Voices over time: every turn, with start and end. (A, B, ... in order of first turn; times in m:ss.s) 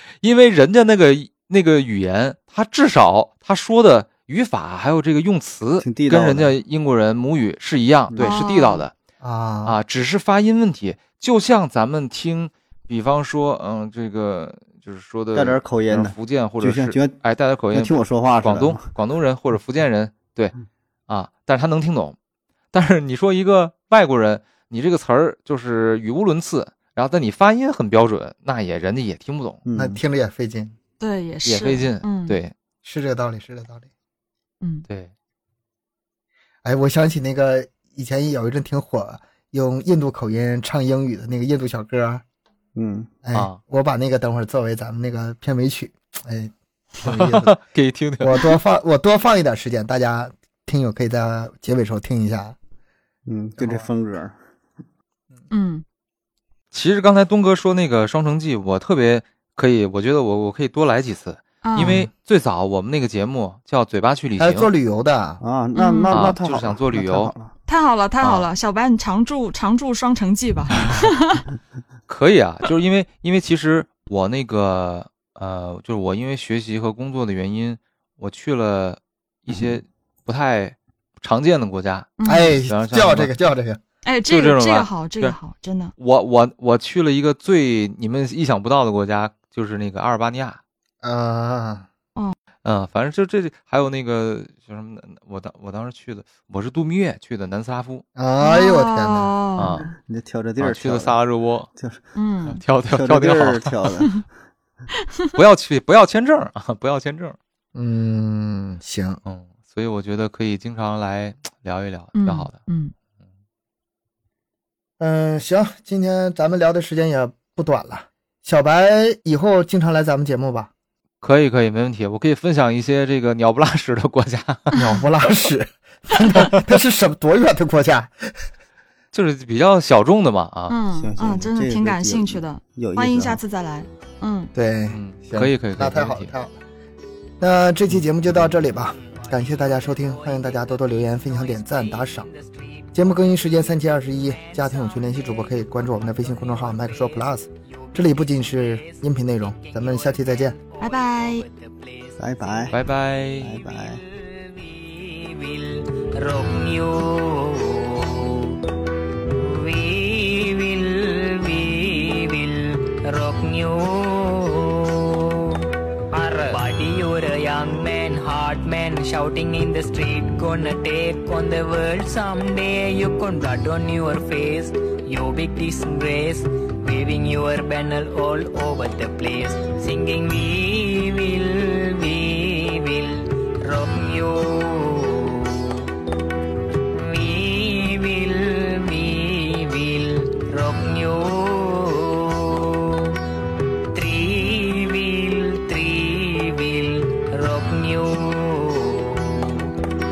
0:00.2-0:08.9 A
0:05.8-0:06.5 B
0:08.1-0:08.4 B
0:08.2-0:08.8 C
0:09.2-0:09.8 D
0:09.6-0:20.5 A
0:15.3-0:17.2 B
0:17.7-0:18.9 B
0:21.1-0:22.2 A
0:22.7-0:29.6 A
0:29.6-0:30.0 B
0:29.8-0:30.8 D
0:31.0-0:32.4 C
0:31.4-0:32.5 A
0:32.8-0:33.9 D
0:36.6-0:42.2 D
0:42.8-0:43.1 B
0:43.2-0:47.6 D
0:43.3-0:43.6 A
0:47.0-0:48.5 A
0:48.2-0:52.6 D
0:53.3-0:54.3 B
0:53.6-0:53.9 D
0:55.5-0:55.8 C
0:56.7-1:04.7 A
1:01.6-1:02.1 C
1:04.4-1:05.4 D
1:05.4-1:07.5 B
1:05.8-1:06.4 C
1:06.1-1:07.3 A
1:07.7-1:11.4 C
1:08.2-1:08.5 A
1:12.1-1:23.3 A
1:22.2-1:22.6 C
1:22.2-1:23.8 D
1:24.0-1:25.9 C
1:24.3-1:25.4 A
1:26.0-1:30.6 A
1:31.0-1:31.9 D
1:32.6-1:38.0 A
1:38.2-1:39.3 D
1:38.4-1:39.8 C
1:39.6-1:39.9 A
1:39.9-1:41.2 B
1:40.6-1:41.7 A
1:41.8-1:42.0 B
1:42.2-1:42.6 C
1:42.6-1:44.0 A
1:42.9-1:44.3 B
1:45.4-1:47.4 A
1:47.8-1:49.2 D
1:49.3-1:52.6 A
1:52.2-1:52.9 C
1:55.0-2:00.7 D
2:01.2-2:04.8 A
2:04.7-2:08.3 D
2:09.1-2:10.8 A
2:10.7-2:14.5 C
2:10.9-2:13.4 B
2:14.5-2:16.5 D
2:14.9-2:16.3 A
2:17.4-2:22.3 D
2:18.8-2:23.2 E
2:22.9-2:30.6 D
2:24.1-2:32.7 E
2:30.8-2:31.5 C
2:32.2-2:32.8 B
2:32.7-2:33.6 A
2:33.4-2:34.0 B
2:33.6-2:38.6 E
2:39.3-3:05.9 E
3:06.9-3:13.2 E
3:13.9-3:19.8 E